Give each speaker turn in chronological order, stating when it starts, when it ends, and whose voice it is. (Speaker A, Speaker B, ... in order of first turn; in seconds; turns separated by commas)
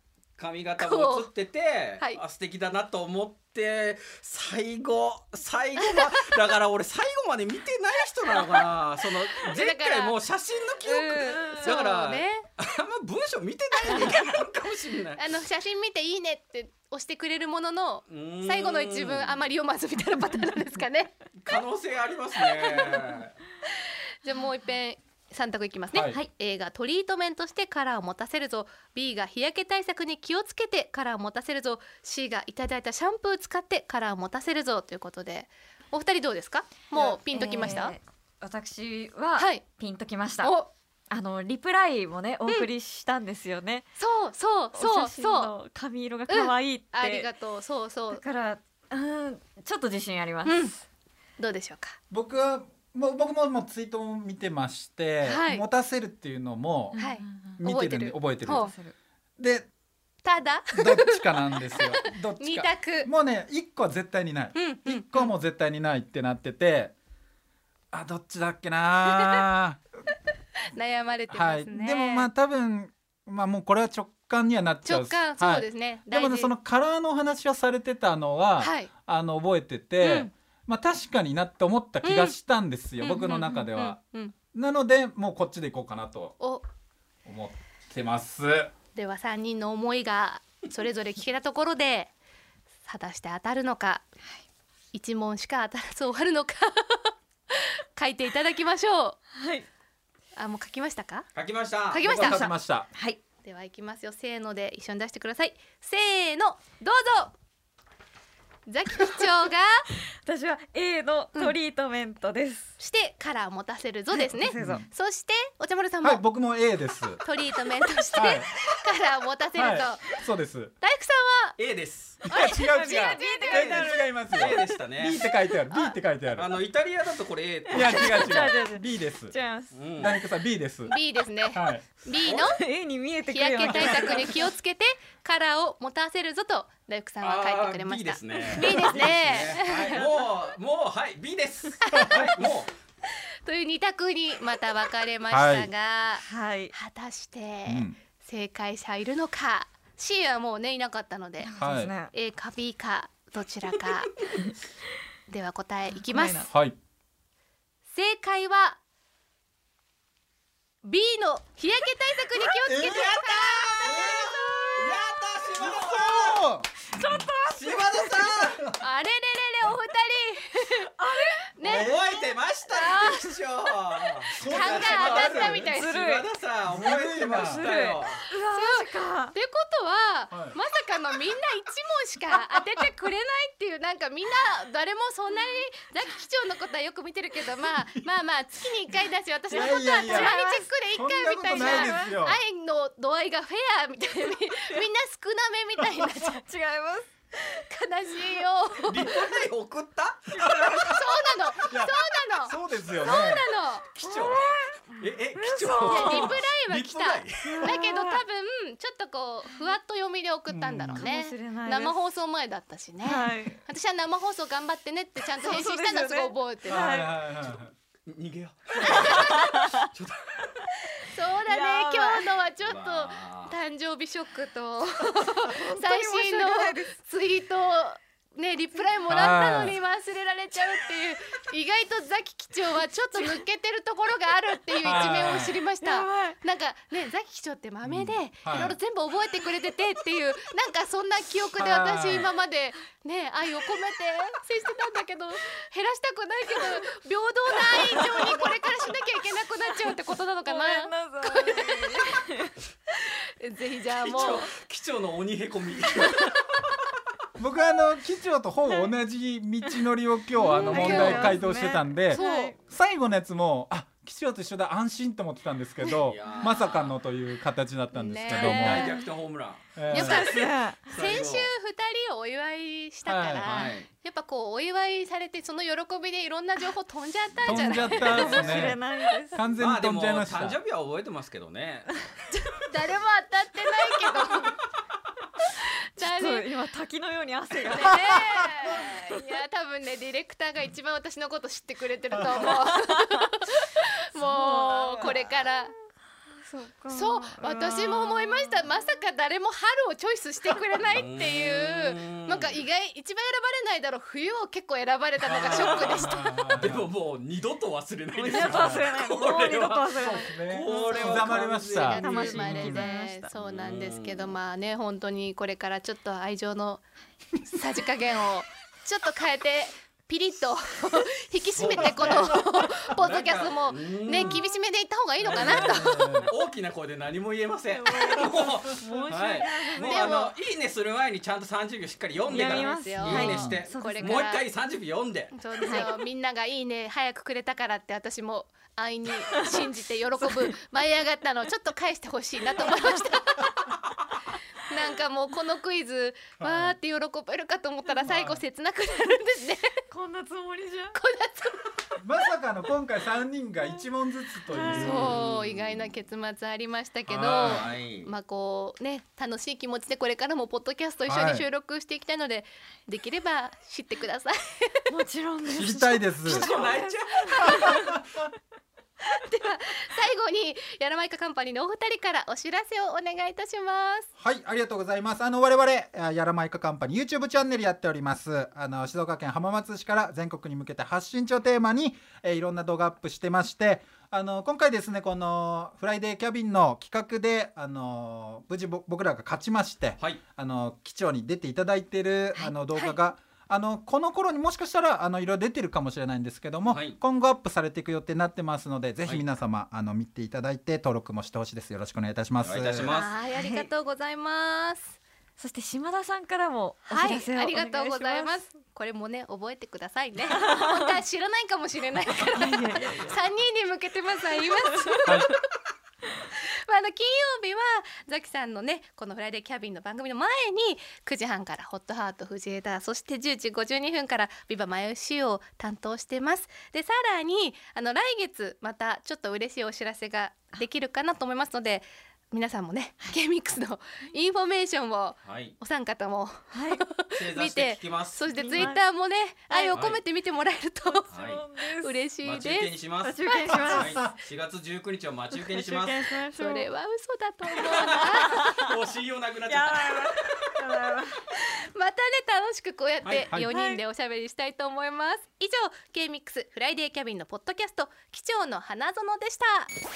Speaker A: 0.4-15.2, Speaker B: 0.8-1.3, Speaker B: 8.3-8.7, Speaker B: 9.3-10.2, Speaker B: 10.8-12.5, Speaker C: 11.2-11.8, Speaker B: 13.8-14.2, Speaker C: 13.9-14.2, Speaker B: 15.2-21.2, Speaker A: 18.1-19.5, Speaker A: 21.4-23.4, Speaker B: 22.4-23.1, Speaker B: 24.2-38.0, Speaker D: 25.9-26.2, Speaker C: 36.9-40.5, Speaker B: 39.4-39.6, Speaker B: 40.4-40.7, Speaker C: 41.1-43.9, Speaker B: 44.0-45.5, Speaker C: 44.8-47.3, Speaker B: 46.3-48.2, Speaker C: 48.1-50.8, Speaker B: 50.5-50.7, Speaker B: 51.4-52.0, Speaker D: 52.1-57.0, Speaker B: 55.2-55.6, Speaker C: 56.9-57.6, Speaker B: 57.0-58.7, Speaker D: 57.6-58.7, Speaker C: 58.5-58.9, Speaker D: 59.4-59.7, Speaker B: 60.2-63.1, Speaker D: 60.8-66.9, Speaker B: 64.5-65.3, Speaker D: 67.9-69.8, Speaker B: 70.7-72.3, Speaker D: 71.3-84.0, Speaker B: 74.8-76.5, Speaker B: 78.6-78.9, Speaker B: 80.0-80.3, Speaker B: 82.0-82.4, Speaker B: 83.0-84.3, Speaker D: 84.5-86.4, Speaker D: 87.2-88.7, Speaker B: 89.0-92.1, Speaker B: 92.9-94.0, Speaker B: 94.9-99.2, Speaker C: 99.3-99.7, Speaker B: 100.4-101.3, Speaker A: 101.3-102.4, Speaker B: 101.9-102.4, Speaker D: 102.0-102.9, Speaker C: 102.9-103.2, Speaker B: 103.4-107.3, Speaker B: 108.7-109.8, Speaker C: 110.2-112.8, Speaker B: 112.8-116.2, Speaker C: 114.2-114.8, Speaker D: 114.5-114.9, Speaker D: 116.0-117.2, Speaker B: 117.2-120.1, Speaker D: 118.1-118.5, Speaker D: 119.5-120.7, Speaker B: 120.8-121.6, Speaker A: 121.6-122.2, Speaker D: 122.2-126.5, Speaker C: 122.3-124.7, Speaker B: 122.7-124.0, Speaker A: 124.3-125.2, Speaker A: 126.3-128.5, Speaker C: 127.7-129.8, Speaker D: 127.7-129.3, Speaker A: 129.7-130.2, Speaker D: 130.0-131.0, Speaker B: 130.9-132.6, Speaker D: 131.5-131.8, Speaker C: 132.2-134.5, Speaker B: 133.3-140.1, Speaker A: 137.2-142.7, Speaker C: 138.3-138.8, Speaker B: 141.8-142.3, Speaker D: 141.9-142.3, Speaker B: 143.4-151.5, Speaker D: 145.3-145.7, Speaker C: 146.2-146.7, Speaker D: 147.7-148.0, Speaker C: 151.4-152.1, Speaker D: 151.6-151.9, Speaker B: 152.1-154.2, Speaker B: 155.3-156.5, Speaker C: 156.1-156.5, Speaker D: 156.5-156.8, Speaker B: 157.9-158.8, Speaker B: 160.8-165.0, Speaker D: 162.7-163.2, Speaker A: 162.7-164.1, Speaker D: 163.7-165.0, Speaker A: 164.8-166.5, Speaker D: 165.5-168.8, Speaker C: 166.9-168.2, Speaker A: 167.5-168.6, Speaker B: 168.8-170.9, Speaker C: 171.0-171.5, Speaker B: 171.6-171.9, Speaker D: 171.6-172.1, Speaker A: 171.6-178.3, Speaker B: 172.7-173.3, Speaker C: 172.8-173.2, Speaker D: 174.3-175.7, Speaker B: 174.4-176.0, Speaker C: 175.7-176.3, Speaker D: 176.7-177.7, Speaker C: 177.4-179.3, Speaker B: 178.4-196.4, Speaker D: 180.3-180.6, Speaker D: 189.5-190.4, Speaker C: 189.5-190.7, Speaker D: 190.9-192.4, Speaker C: 191.5-192.2, Speaker C: 196.4-197.1, Speaker B: 197.5-199.5, Speaker A: 198.8-200.9, Speaker C: 200.3-201.1, Speaker B: 200.8-203.9, Speaker D: 201.7-203.5, Speaker A: 203.9-207.8, Speaker C: 204.0-204.8, Speaker C: 205.3-206.4, Speaker B: 205.8-217.0, Speaker C: 207.4-208.2, Speaker D: 210.5-211.0, Speaker C: 211.0-211.9, Speaker C: 213.0-213.6, Speaker C: 215.3-217.2, Speaker D: 216.7-217.7, Speaker A: 218.1-220.6, Speaker B: 218.8-219.6, Speaker C: 218.8-219.9, Speaker B: 221.1-252.2, Speaker C: 221.5-222.3, Speaker A: 222.6-223.6, Speaker C: 225.4-226.9, Speaker D: 229.1-229.8, Speaker C: 233.1-233.4, Speaker D: 234.8-235.6, Speaker C: 235.8-236.4, Speaker D: 237.9-238.8, Speaker D: 241.6-242.3, Speaker C: 250.5-252.5, Speaker B: 253.0-254.5, Speaker A: 253.9-256.4, Speaker D: 257.4-268.9, Speaker C: 260.4-262.6, Speaker A: 260.4-261.3, Speaker B: 260.7-261.4, Speaker B: 262.1-262.6, Speaker A: 266.1-267.0, Speaker B: 267.9-269.0, Speaker A: 268.3-270.2, Speaker D: 269.8-270.3, Speaker C: 269.9-270.9, Speaker B: 269.9-278.7, Speaker A: 270.9-271.5, Speaker D: 273.1-273.6, Speaker A: 273.4-273.9, Speaker A: 277.5-278.7, Speaker D: 277.5-278.8, Speaker C: 277.8-279.4, Speaker D: 279.3-280.6, Speaker A: 279.6-282.0, Speaker B: 282.6-284.6, Speaker B: 285.6-286.5, Speaker C: 286.0-289.2, Speaker B: 287.7-295.7, Speaker C: 292.3-293.2, Speaker C: 294.1-295.5, Speaker C: 296.4-298.6, Speaker B: 296.9-306.5, Speaker A: 300.9-302.6, Speaker D: 305.4-306.9, Speaker A: 305.4-312.8, Speaker C: 308.2-311.2, Speaker D: 308.3-308.9, Speaker D: 309.9-312.8, Speaker B: 310.7-316.8, Speaker C: 312.0-313.3, Speaker A: 313.4-314.3, Speaker B: 317.4-326.2, Speaker A: 321.6-324.4, Speaker D: 322.0-322.3, Speaker D: 325.2-326.3, Speaker A: 325.3-335.8, Speaker C: 327.7-330.3, Speaker B: 329.8-330.3, Speaker B: 332.3-334.5, Speaker C: 332.3-334.2, Speaker D: 333.1-333.6, Speaker B: 335.3-343.7, Speaker C: 335.6-335.9, Speaker C: 342.6-343.0, Speaker B: 344.7-349.8, Speaker D: 346.4-346.8, Speaker D: 348.0-348.4, Speaker C: 349.9-351.0, Speaker B: 350.9-351.7, Speaker D: 352.0-355.1, Speaker C: 354.5-355.0, Speaker B: 354.7-364.9, Speaker A: 354.7-356.0, Speaker A: 357.1-358.1, Speaker D: 357.2-357.7, Speaker D: 361.1-361.4, Speaker C: 364.9-368.0, Speaker D: 365.5-366.5, Speaker A: 366.3-367.8, Speaker D: 367.4-368.0, Speaker B: 369.2-374.1, Speaker D: 374.2-402.9, Speaker C: 392.4-392.9, Speaker A: 396.7-397.0, Speaker A: 402.4-403.1, Speaker B: 402.8-405.0, Speaker C: 403.3-403.7, Speaker C: 405.4-408.4, Speaker B: 406.9-415.4, Speaker C: 410.3-410.9, Speaker C: 412.4-413.1, Speaker D: 415.1-415.3, Speaker B: 416.3-441.1, Speaker A: 435.2-435.6, Speaker C: 436.5-436.8, Speaker A: 437.1-438.7, Speaker C: 438.3-438.8, Speaker C: 439.5-439.8, Speaker A: 439.7-440.0, Speaker C: 440.9-441.9, Speaker A: 441.1-441.4, Speaker B: 441.6-442.7, Speaker A: 442.2-446.1, Speaker C: 443.0-444.1, Speaker C: 445.3-446.7, Speaker B: 446.3-448.5, Speaker A: 447.8-450.4, Speaker C: 447.9-448.7, Speaker C: 449.5-451.2, Speaker B: 451.6-459.7, Speaker A: 453.0-453.3, Speaker C: 453.5-453.8